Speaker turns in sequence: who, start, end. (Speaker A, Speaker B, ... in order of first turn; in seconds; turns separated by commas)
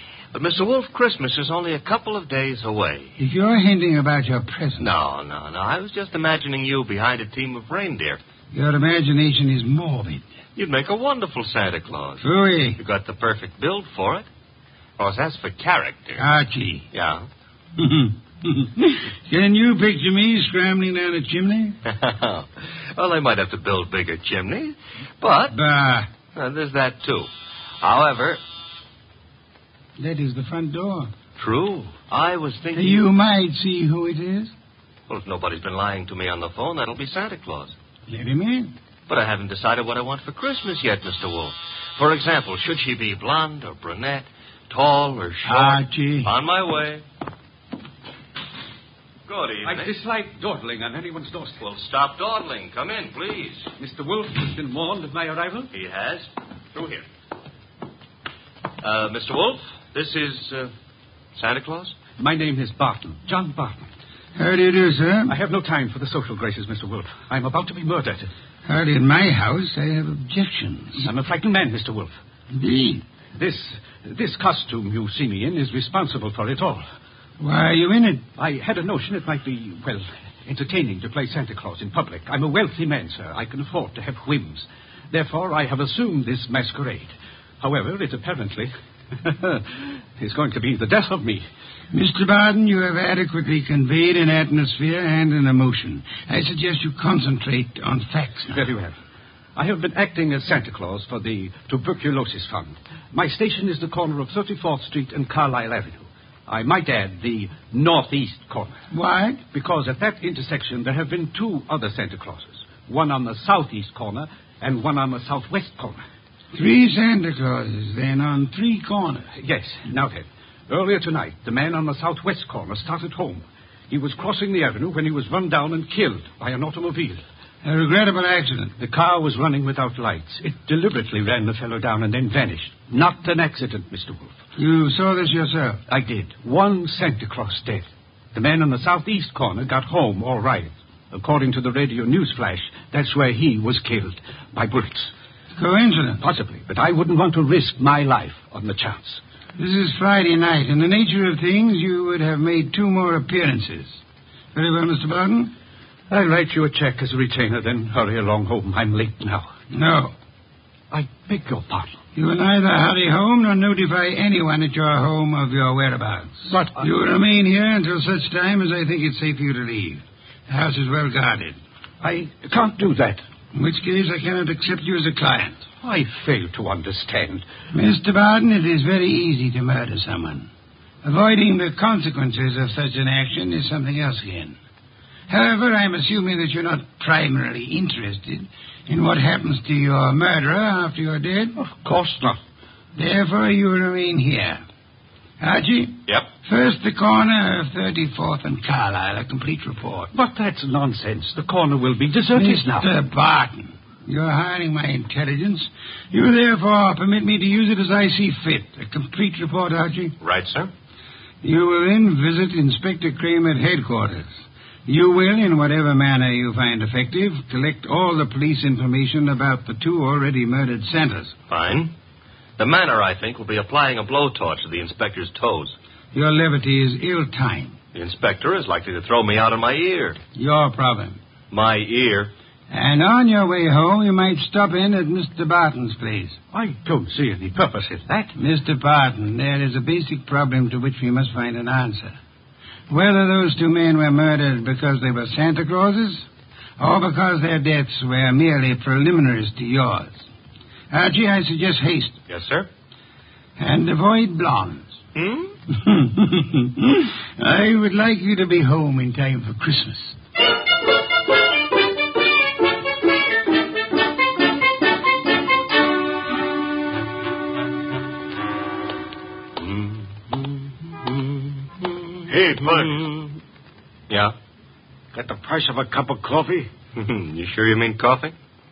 Speaker A: 0.3-3.1, Speaker B: 3.2-4.9, Speaker A: 4.8-8.2, Speaker B: 8.5-10.2, Speaker A: 10.6-12.2, Speaker B: 12.2-12.8, Speaker A: 12.8-14.3, Speaker A: 15.0-16.2, Speaker B: 16.2-16.9, Speaker A: 16.9-17.3, Speaker B: 17.8-21.8, Speaker A: 21.9-25.6, Speaker B: 25.5-26.1, Speaker A: 26.4-27.3, Speaker A: 27.8-28.4, Speaker B: 30.0-31.1, Speaker A: 31.4-33.1, Speaker B: 32.8-34.5, Speaker A: 35.1-37.8, Speaker B: 38.1-38.7, Speaker A: 39.1-47.0, Speaker B: 45.4-46.3, Speaker A: 49.3-49.9, Speaker C: 49.6-51.6, Speaker A: 51.6-53.7, Speaker C: 53.8-55.7, Speaker A: 55.7-57.1, Speaker A: 58.8-60.7, Speaker A: 61.4-61.9, Speaker C: 62.2-63.9, Speaker B: 64.4-65.3, Speaker C: 65.3-68.3, Speaker B: 68.7-71.0, Speaker C: 71.0-72.2, Speaker B: 72.5-73.0, Speaker C: 73.4-76.8, Speaker B: 77.4-78.2, Speaker C: 78.4-89.7, Speaker C: 90.2-91.4, Speaker B: 91.9-98.6, Speaker C: 98.5-99.0, Speaker C: 99.5-108.8, Speaker B: 108.9-109.4, Speaker C: 109.5-116.0, Speaker B: 116.5-119.3, Speaker C: 119.3-127.2, Speaker B: 127.6-128.8, Speaker C: 128.8-134.4, Speaker B: 134.6-135.8, Speaker C: 135.9-145.1, Speaker B: 145.6-146.2, Speaker C: 146.2-149.2, Speaker B: 149.6-154.0, Speaker B: 154.5-155.5, Speaker C: 156.1-159.5, Speaker B: 159.7-160.1, Speaker C: 160.9-162.0, Speaker B: 162.1-171.6, Speaker C: 166.5-166.9, Speaker C: 172.0-173.2, Speaker B: 173.5-175.6, Speaker C: 175.8-177.4, Speaker B: 177.7-180.5, Speaker B: 181.0-184.6, Speaker B: 185.3-191.6, Speaker C: 191.6-192.4, Speaker B: 193.0-194.6, Speaker B: 195.4-200.1, Speaker C: 200.1-202.9, Speaker B: 202.3-210.2, Speaker A: 210.2-210.7, Speaker B: 211.4-214.3, Speaker B: 214.9-221.4, Speaker A: 221.5-221.9, Speaker A: 222.6-225.8, Speaker B: 226.1-227.8, Speaker A: 227.9-230.2, Speaker B: 230.3-231.2, Speaker A: 231.5-232.3, Speaker B: 232.7-236.4, Speaker C: 236.5-238.3, Speaker B: 238.4-242.2, Speaker B: 242.9-246.2, Speaker B: 246.8-250.2, Speaker B: 250.9-252.2, Speaker A: 252.3-252.7, Speaker B: 253.6-255.0, Speaker A: 255.1-255.5, Speaker B: 255.7-260.1, Speaker A: 269.6-271.2, Speaker A: 271.8-273.3, Speaker D: 272.3-273.1, Speaker A: 274.1-274.4, Speaker D: 275.1-276.7, Speaker A: 277.0-278.4